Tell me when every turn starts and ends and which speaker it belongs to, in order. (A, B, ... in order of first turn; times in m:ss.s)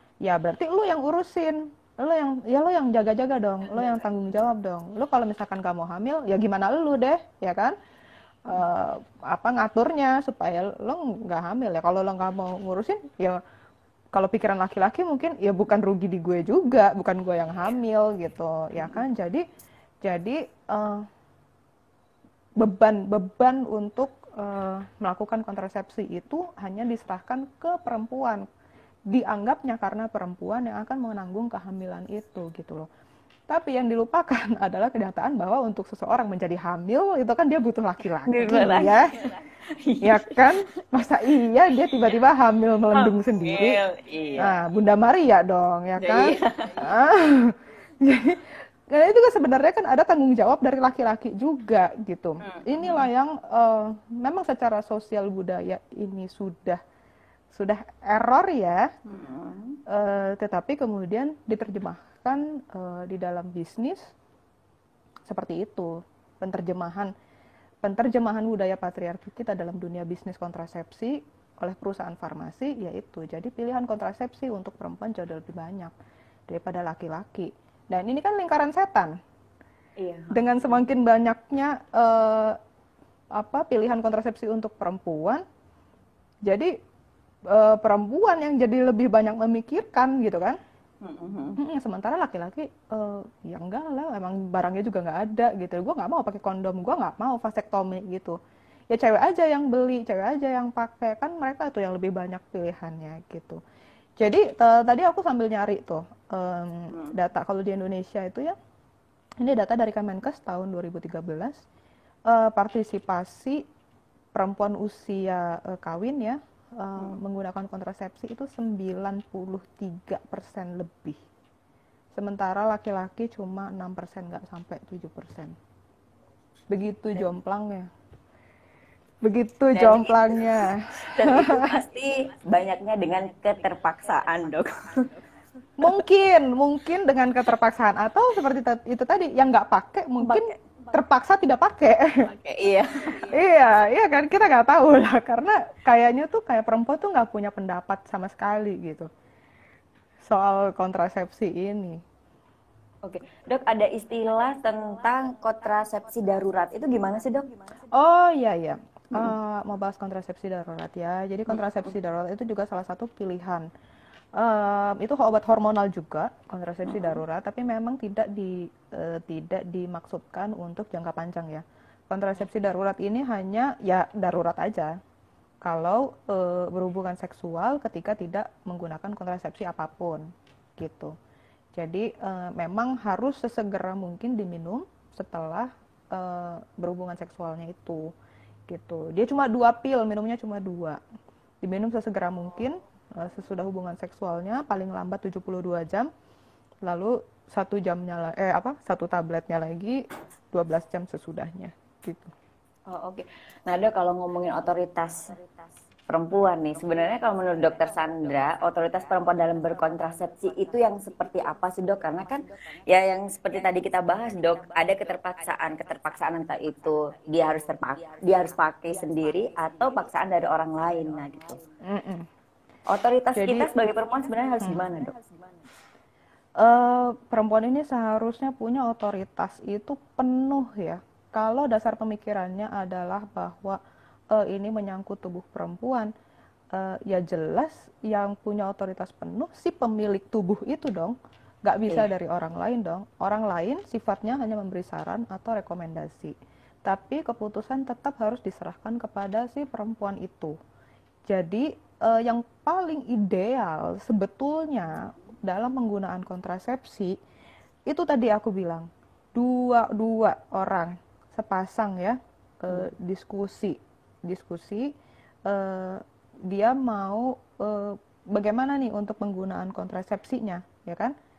0:00.2-0:07.8 A
0:08.4-0:13.4 A
0:14.1-0:19.4 A
0:20.0-0:21.1 A
0:22.6-0:28.4 A
0:29.1-0:32.9 A
0:33.5-0:39.2 A
0:38.3-0:40.6 B
0:40.0-0:43.8 A
0:42.9-0:44.6 B
0:44.4-0:56.8 A
0:46.0-0:46.9 B
0:52.4-0:53.0 B
0:57.5-0:58.9 A
0:59.1-0:59.8 B
0:59.9-1:04.1 A
1:05.3-1:07.1 A
1:07.8-1:15.9 A
1:16.5-1:19.2 A
1:20.0-1:20.7 B
1:20.3-1:22.6 A
1:23.3-1:25.4 A
1:26.4-1:26.7 A
1:27.5-1:30.6 A
1:31.0-1:31.6 B
1:31.6-1:38.4 A
1:38.9-1:43.6 A
1:44.2-1:48.6 A
1:49.4-1:51.6 A
1:52.3-1:53.6 A
1:54.3-2:01.2 A
2:02.1-2:05.5 A
2:06.7-2:07.8 A
2:09.2-2:11.8 A
2:09.7-2:15.2 B
2:15.8-2:22.2 A
2:20.2-2:20.5 B
2:22.2-2:23.3 B
2:23.2-2:29.1 A
2:30.2-2:32.0 A
2:33.0-2:37.5 B
2:37.9-2:43.7 A
2:44.4-2:54.9 A
2:46.9-2:47.2 B
2:55.6-3:00.2 A
3:00.8-3:01.1 A
3:01.7-3:08.1 A
3:08.7-3:11.0 A
3:11.6-3:16.1 A
3:16.8-3:22.3 A
3:22.9-3:25.4 B
3:26.1-3:41.6 B
3:41.8-3:42.2 A
3:42.9-3:45.2 B
3:43.3-3:43.7 A
3:46.6-3:53.8 A
3:54.3-3:56.1 A
3:56.7-4:06.3 A
4:06.8-4:10.6 A
4:11.3-4:17.1 A
4:17.9-4:24.9 A
4:25.4-4:31.1 A